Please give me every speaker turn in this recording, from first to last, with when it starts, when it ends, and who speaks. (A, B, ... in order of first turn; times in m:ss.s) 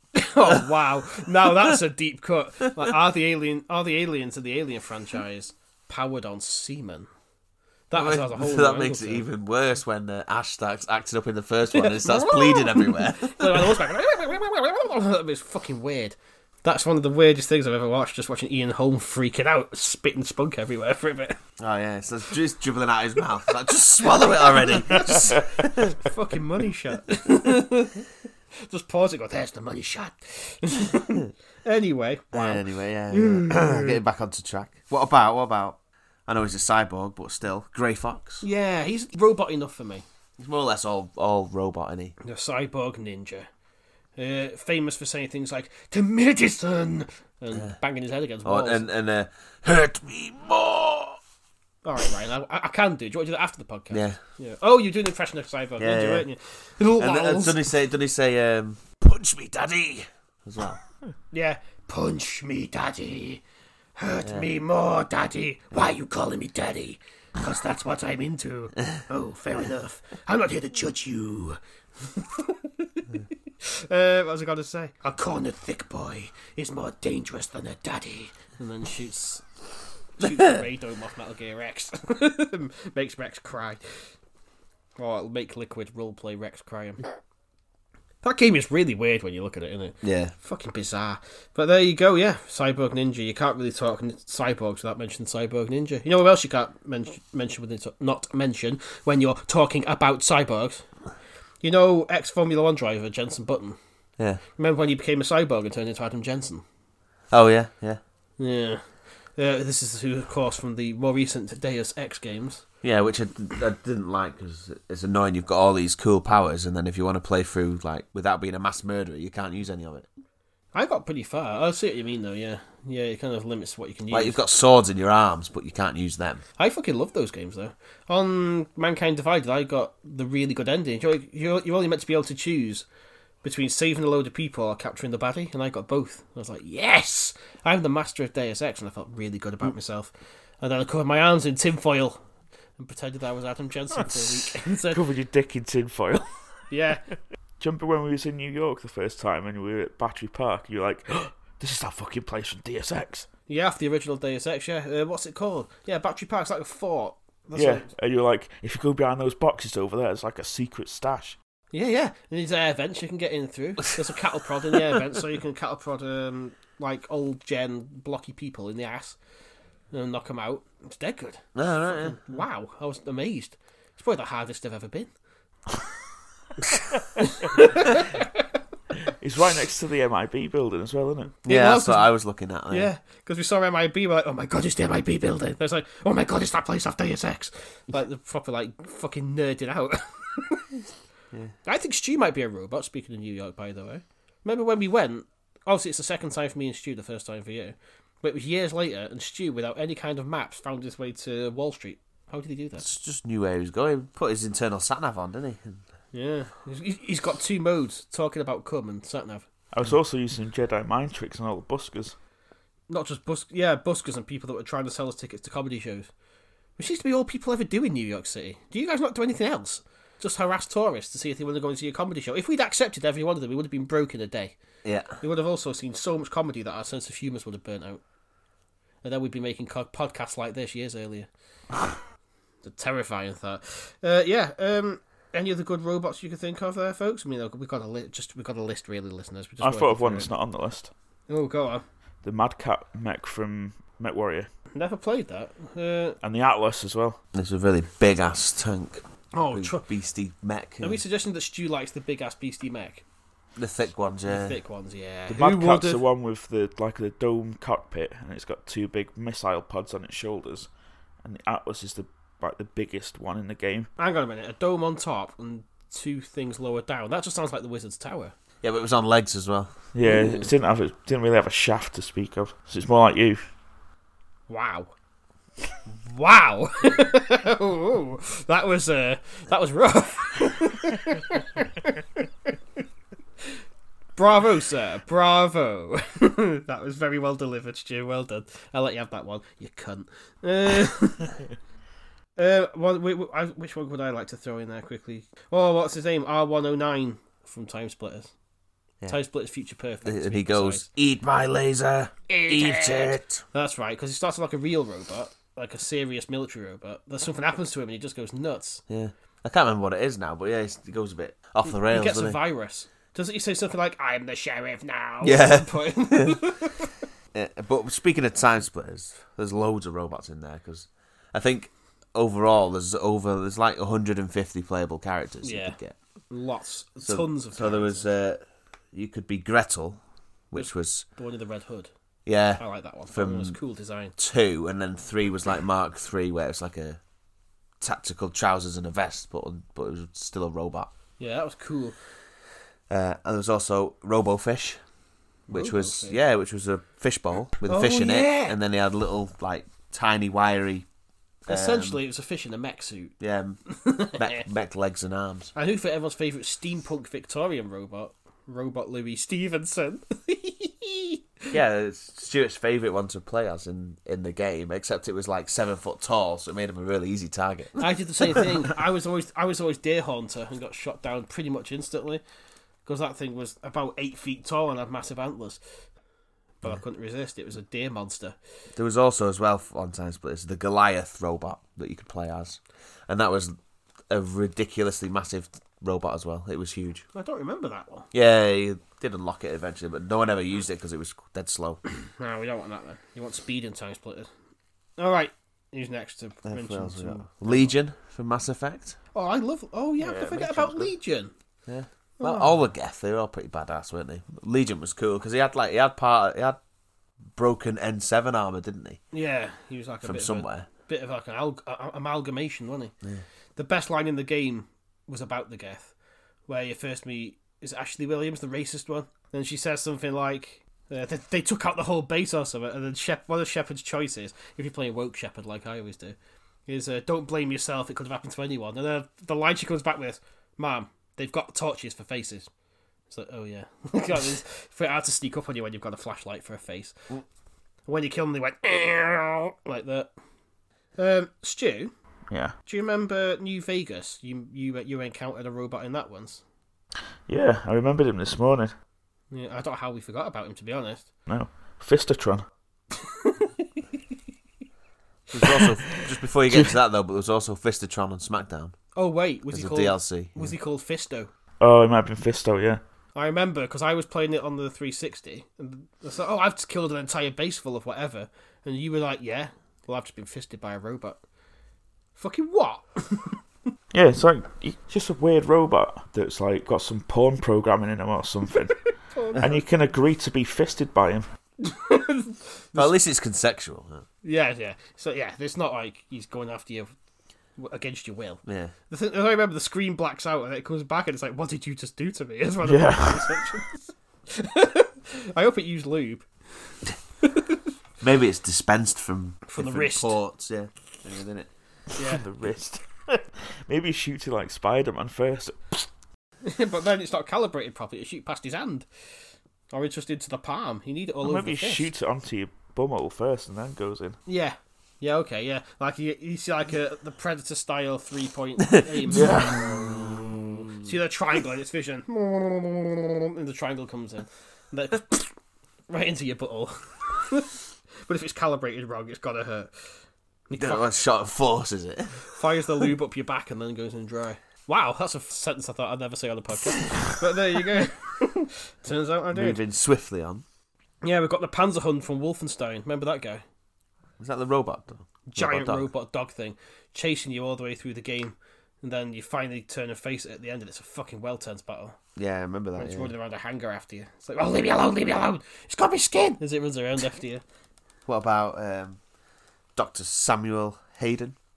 0:00.1-0:07.1 A
0:07.9-0:09.2 A
0:07.9-0:13.7 B
0:11.7-0:21.4 A
0:21.6-0:26.0 B
0:24.0-0:34.0 A
0:32.3-0:38.4 B
0:38.4-0:40.0 A
0:40.4-0:42.2 B
0:42.2-0:43.5 A
0:44.2-0:48.9 A
0:48.4-0:51.2 B
0:51.8-0:57.6 A
0:53.9-0:54.2 B
0:55.8-0:56.3 B
0:57.0-1:00.8 B
1:01.3-1:03.4 A
1:04.0-1:19.4 A
1:20.2-1:24.1 A
1:25.0-1:27.1 A
1:28.2-1:40.8 A
1:30.0-1:30.3 B
1:41.6-1:43.8 A
1:44.6-1:46.6 A
1:47.3-1:48.0 B
1:48.4-1:52.6 A
1:52.8-2:00.1 B
2:00.7-2:04.4 A
2:04.1-2:06.4 B
2:06.6-2:12.8 A
2:13.4-2:22.2 A
2:22.8-2:25.0 A
2:24.9-2:26.4 C
2:26.7-2:27.0 A
2:27.6-2:33.3 C
2:33.5-2:37.9 A
2:37.5-2:41.4 C
2:41.7-2:49.2 A
2:49.9-2:55.1 A
2:51.5-2:52.2 B
2:57.2-2:58.2 A
2:59.2-3:01.3 C
3:01.4-3:02.1 A
3:01.4-3:02.9 B
3:02.7-3:10.8 A
3:11.6-3:22.8 A
3:22.8-3:25.8 B
3:26.1-3:29.4 A
3:29.7-3:32.2 C
3:32.9-3:36.1 A
3:36.8-3:44.6 A
3:44.8-3:45.2 B
3:45.2-3:48.0 A
3:49.0-3:51.3 A
3:52.6-4:00.3 A
3:59.6-4:00.9 C
4:01.3-4:01.8 A
4:02.2-4:04.5 C
4:04.7-4:06.2 A
4:06.2-4:07.2 C
4:07.3-4:11.0 B
4:09.3-4:09.8 A
4:10.8-4:13.0 A
4:13.6-4:14.6 B
4:14.3-4:16.0 A
4:15.3-4:20.7 C
4:21.2-4:23.9 C
4:24.0-4:28.3 A
4:28.6-4:29.7 B
4:29.9-4:33.4 C
4:30.0-4:30.5 A
4:34.5-4:34.9 A
4:36.0-4:42.5 A
4:44.2-4:51.3 A
4:52.4-4:58.3 A
4:59.1-5:00.9 A
5:00.0-5:03.4 B
5:02.3-5:08.8 A
5:08.9-5:12.4 B
5:11.7-5:16.9 A
5:15.2-5:16.4 B
5:17.3-5:25.9 B
5:25.4-5:25.8 A
5:26.3-5:28.1 A
5:27.1-5:28.4 B
5:28.9-5:31.0 B
5:30.5-5:31.9 A
5:32.2-5:33.6 B
5:32.6-5:34.1 A
5:34.2-5:37.0 B
5:37.8-5:40.9 B
5:41.2-5:42.0 A
5:42.9-5:44.8 B
5:45.5-5:50.8 B
5:45.5-5:46.2 A
5:47.7-5:48.5 A
5:51.5-5:52.0 B
5:51.5-5:53.1 A
5:53.2-5:53.6 B
5:53.7-5:54.4 A
5:54.1-5:55.5 B
5:55.5-6:01.2 A
6:01.5-6:08.4 B
6:07.8-6:12.2 A
6:12.8-6:15.6 A
6:16.6-6:18.4 A
6:18.7-6:23.6 B
6:24.1-6:27.0 B
6:27.1-6:28.1 A
6:28.1-6:31.8 B
6:32.0-6:34.3 A
6:35.0-6:37.7 A
6:36.4-6:39.0 B
6:39.1-6:41.3 A
6:40.0-6:40.9 B
6:41.7-6:46.6 B
6:42.2-6:42.6 A
6:47.3-6:49.0 B
6:49.1-6:52.9 A
6:50.0-6:50.7 B
6:53.6-6:55.9 A
6:56.5-7:06.2 A
7:06.7-7:12.5 A
7:13.1-7:16.9 A
7:17.8-7:20.1 A
7:21.0-7:21.9 A
7:22.6-7:26.4 A
7:27.3-7:28.7 C
7:29.3-7:31.0 A
7:31.3-7:32.4 C
7:33.0-7:33.8 A
7:35.3-7:38.8 B
7:38.9-7:41.3 A
7:39.5-7:40.5 B
7:41.6-7:42.8 C
7:43.1-7:51.2 A
7:52.2-7:53.4 A
7:53.9-7:58.8 C
7:59.1-7:59.6 A
7:59.4-8:01.3 C
8:01.6-8:03.0 A
8:02.8-8:04.0 B
8:04.2-8:06.9 A
8:07.6-8:17.6 A
8:08.4-8:08.7 B
8:12.6-8:13.4 C
8:18.0-8:21.5 B
8:19.5-8:20.2 A
8:22.0-8:22.2 A
8:22.0-8:25.9 C
8:26.4-8:28.9 A
8:29.7-8:31.9 A
8:31.2-8:34.2 C
8:34.2-8:40.2 A
8:39.1-8:40.0 C
8:40.7-8:45.3 A
8:45.9-8:49.7 A
8:50.5-8:50.8 A
8:50.6-8:52.3 B
8:52.3-8:59.6 A
8:59.3-9:00.4 B
9:01.0-9:03.4 A
9:04.2-9:05.9 B
9:05.3-9:12.0 A
9:12.2-9:13.1 B
9:12.8-9:17.4 A
9:18.1-9:19.0 B
9:19.8-9:21.4 B